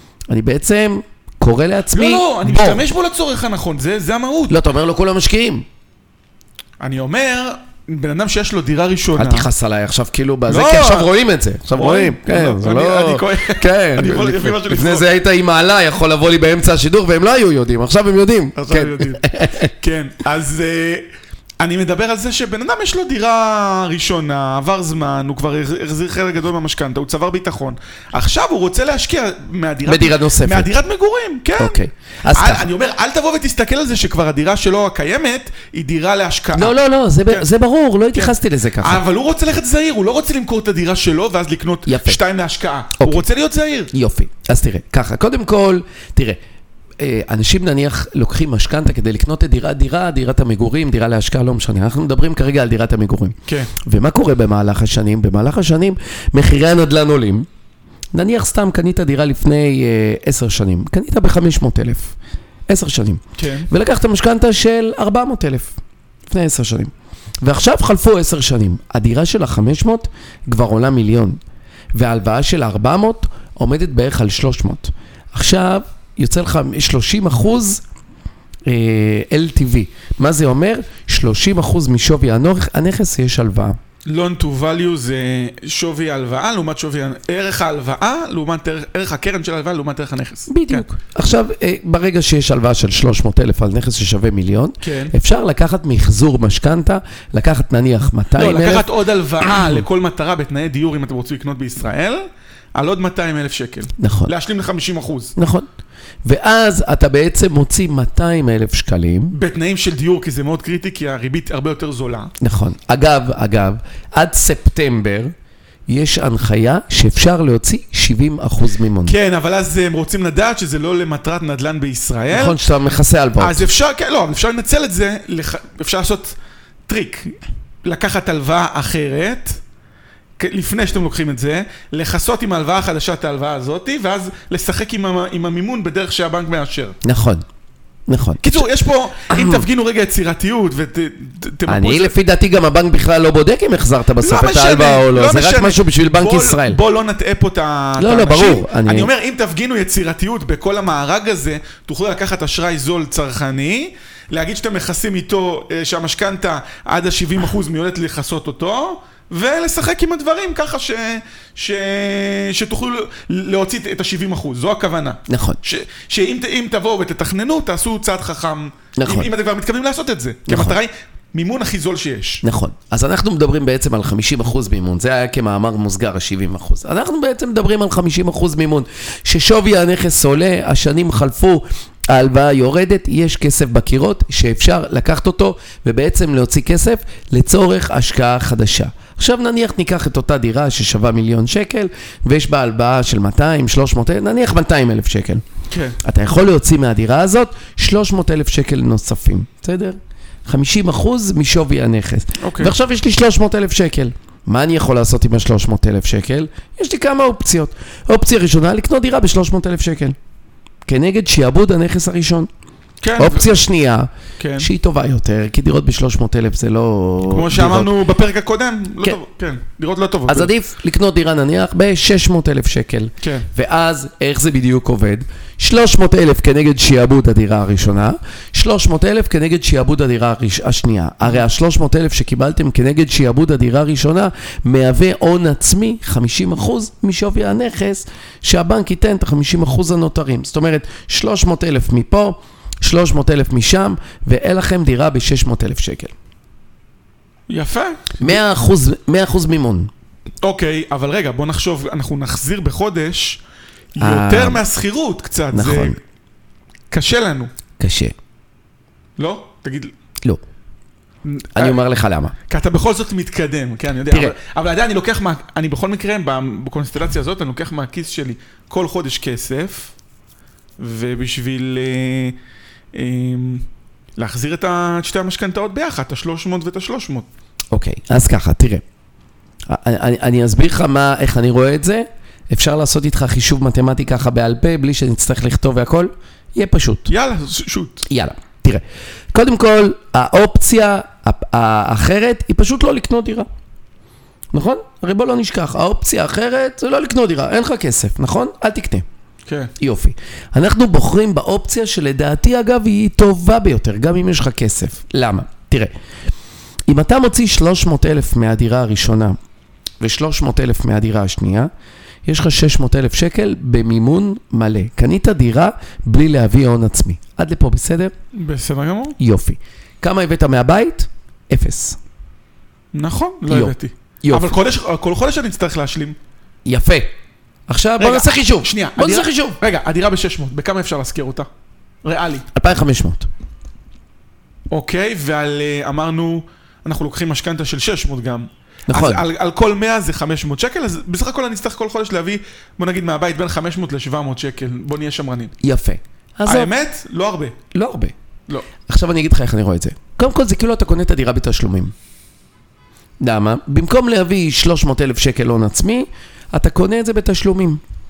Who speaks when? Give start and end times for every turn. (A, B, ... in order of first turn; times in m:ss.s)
0:00.3-0:02.8 A
0:01.9-0:04.6 B
0:04.5-0:05.6 A
0:06.8-0:09.5 B
0:09.2-0:19.7 A
0:10.5-0:11.1 B
0:11.7-0:15.1 B
0:18.6-0:21.0 B
0:21.6-0:36.8 B
0:29.8-0:30.7 A
0:31.6-0:32.7 A
0:36.5-0:39.0 A
0:38.1-0:43.9 B
0:41.9-0:42.2 A
0:43.0-0:43.2 A
0:43.9-0:46.4 A
0:47.0-0:57.4 A
0:53.5-0:53.7 B
0:58.1-1:02.1 A
1:02.7-1:05.7 A
1:03.4-1:03.7 B
1:06.3-1:11.4 A
1:11.9-1:17.8 A
1:18.7-1:23.8 A
1:24.1-1:30.8 B
1:30.5-1:38.9 A
1:34.8-1:35.1 B
1:38.4-1:45.3 B
1:39.4-1:39.8 A
1:44.0-1:44.3 A
1:45.4-1:45.7 A
1:46.2-1:49.3 A
1:49.3-1:52.3 B
1:52.4-1:55.3 A
1:55.9-1:59.1 A
1:59.0-2:02.6 B
2:02.3-2:03.6 A
2:03.4-2:06.4 B
2:06.9-2:09.6 B
2:10.4-2:17.0 B
2:17.0-2:17.4 A
2:18.1-2:18.6 A
2:18.4-2:22.1 B
2:19.3-2:19.6 A
2:21.7-2:26.8 A
2:24.2-2:52.4 B
2:28.0-2:29.1 A
2:45.3-2:45.6 A
2:49.0-2:49.3 A
2:50.5-2:50.8 A
2:52.4-3:15.4 A
3:15.7-3:16.0 B
3:16.0-3:30.2 A
3:22.4-3:22.7 B
3:30.8-3:32.5 A
3:33.0-3:33.5 B
3:33.2-3:37.9 A
3:34.4-3:34.7 B
3:37.3-3:40.5 B
3:40.3-4:06.1 A
3:43.2-3:43.5 B
4:07.5-4:08.4 B
4:08.2-4:09.9 A
4:10.4-4:13.4 B
4:14.0-4:16.0 B
4:14.0-4:14.6 A
4:15.5-4:16.0 A
4:16.9-4:17.5 B
4:17.8-4:18.1 A
4:19.2-4:19.9 B
4:21.2-4:21.8 B
4:21.6-4:22.3 A
4:22.5-4:29.9 B
4:24.1-4:24.3 A
4:30.8-4:32.4 B
4:32.9-4:33.6 B
4:34.2-4:37.3 B
4:37.7-4:38.8 A
4:39.6-4:47.1 A
4:47.1-4:48.0 B
4:48.1-4:53.5 A
4:54.5-4:59.0 A
4:59.5-4:59.7 B
4:59.8-5:05.9 A
5:06.9-5:09.4 A
5:10.0-5:11.7 A
5:12.2-5:18.1 A
5:18.3-5:19.2 B
5:19.2-5:22.0 A
5:22.9-5:26.2 B
5:23.5-5:24.5 A
5:26.6-5:27.1 A
5:27.7-5:29.6 A
5:28.0-5:31.5 B
5:32.0-5:32.4 B
5:32.5-5:33.3 A
5:34.7-5:45.5 B
5:38.9-5:39.2 A
5:45.6-5:46.7 A
5:46.4-5:47.6 B
5:47.7-5:48.1 A
5:48.8-5:51.9 A
5:53.2-5:57.8 A